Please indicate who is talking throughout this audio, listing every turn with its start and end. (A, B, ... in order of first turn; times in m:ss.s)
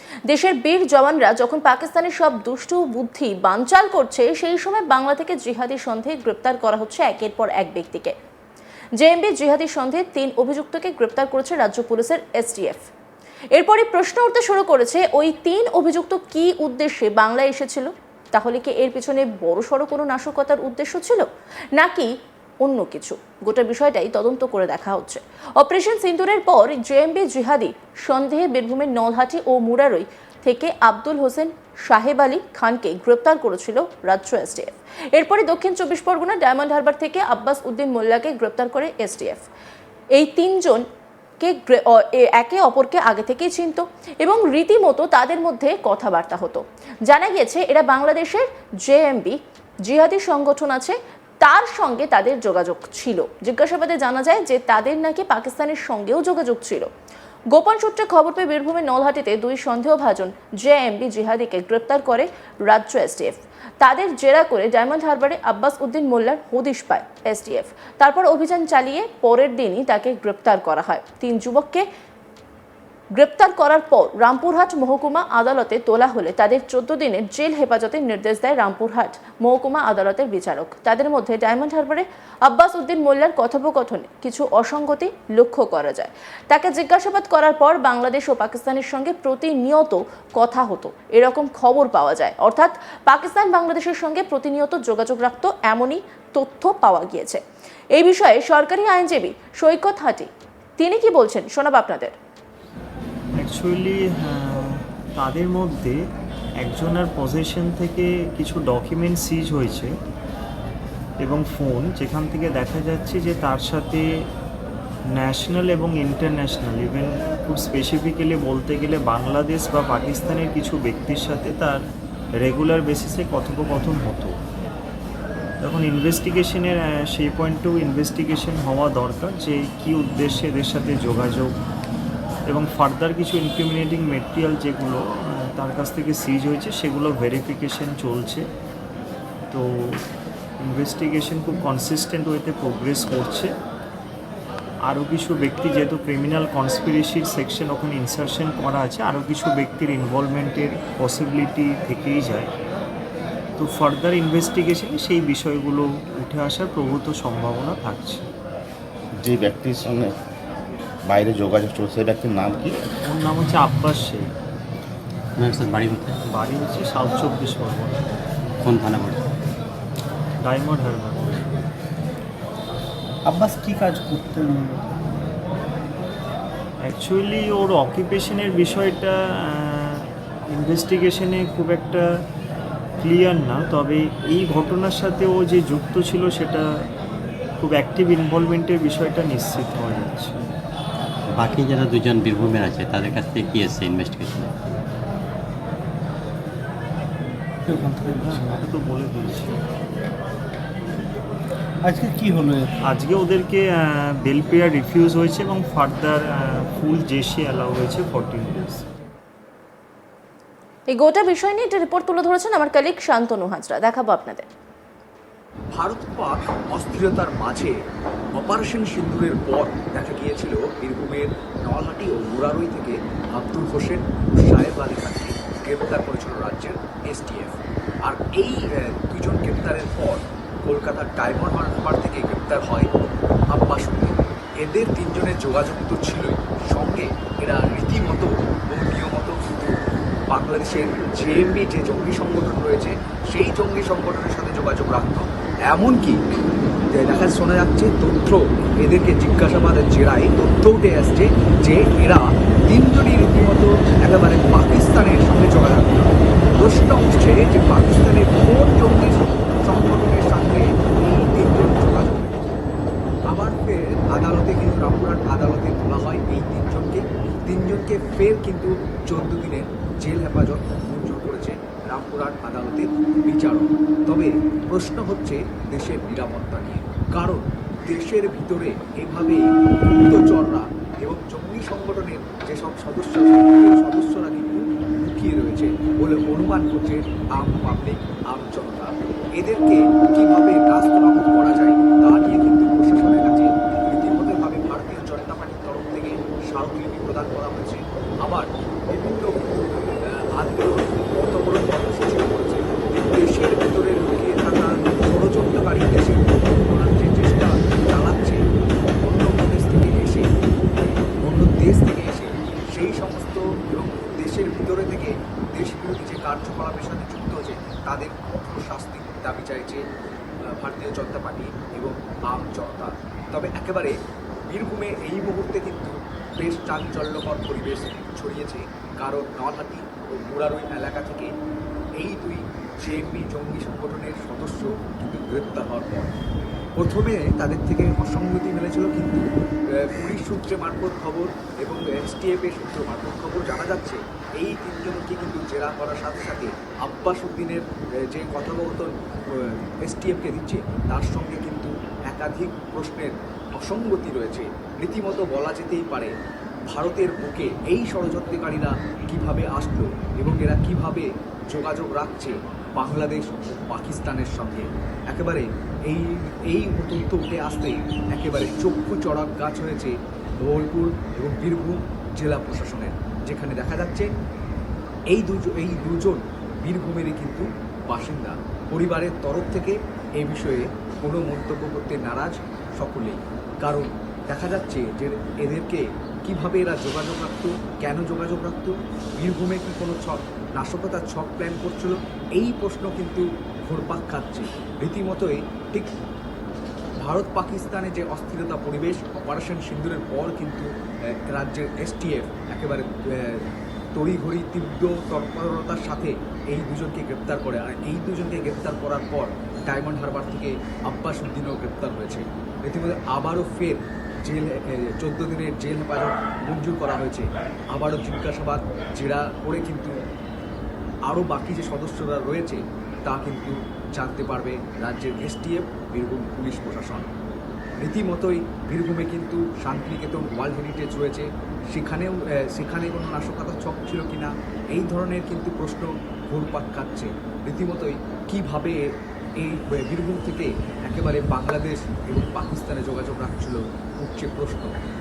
0:00.3-0:08.1 A
0:09.0-0:12.9 A
0:13.5-0:39.4 A
0:40.1-0:40.8 A
0:41.4-0:56.9 A
0:57.5-1:11.8 A
1:13.1-1:37.4 A
1:37.9-1:42.1 A
1:43.4-1:46.0 B
1:46.6-1:49.9 B
1:51.2-1:54.0 B
1:55.2-2:01.8 B
2:02.4-2:04.4 B
2:05.6-2:11.5 B
2:12.5-2:18.4 B
2:19.5-2:20.0 B
2:20.6-2:23.5 B
2:24.9-2:32.5 B
2:33.6-2:38.3 B
2:39.2-2:40.2 C
2:41.0-2:42.8 C
2:43.0-2:44.3 B
2:45.4-2:46.2 D
2:46.2-2:48.0 B
2:48.6-2:49.3 D
2:50.4-2:51.5 B
2:53.3-2:54.8 E
2:56.8-3:02.0 B
3:03.0-3:06.8 B
3:07.6-3:10.5 B
3:11.3-3:14.5 D
3:18.2-3:19.6 B
3:21.9-3:22.5 E
3:22.8-3:28.8 B
3:30.9-3:34.5 A
3:35.7-3:37.7 F
3:38.3-3:52.9 F
3:53.5-3:59.7 F
4:00.3-4:06.2 F
4:06.9-4:22.4 F
4:23.3-4:39.5 F
4:40.0-5:10.3 F
5:11.2-5:19.8 F
5:20.4-5:23.9 F
5:24.5-5:31.3 F
5:32.0-5:36.1 F
5:36.8-5:56.1 F
5:56.7-6:14.1 F
6:15.1-6:35.9 F
6:37.0-6:40.7 F
6:41.3-6:43.4 F
6:43.9-6:59.9 F
7:01.0-7:07.1 F
7:07.8-7:18.8 F
7:19.4-7:24.7 F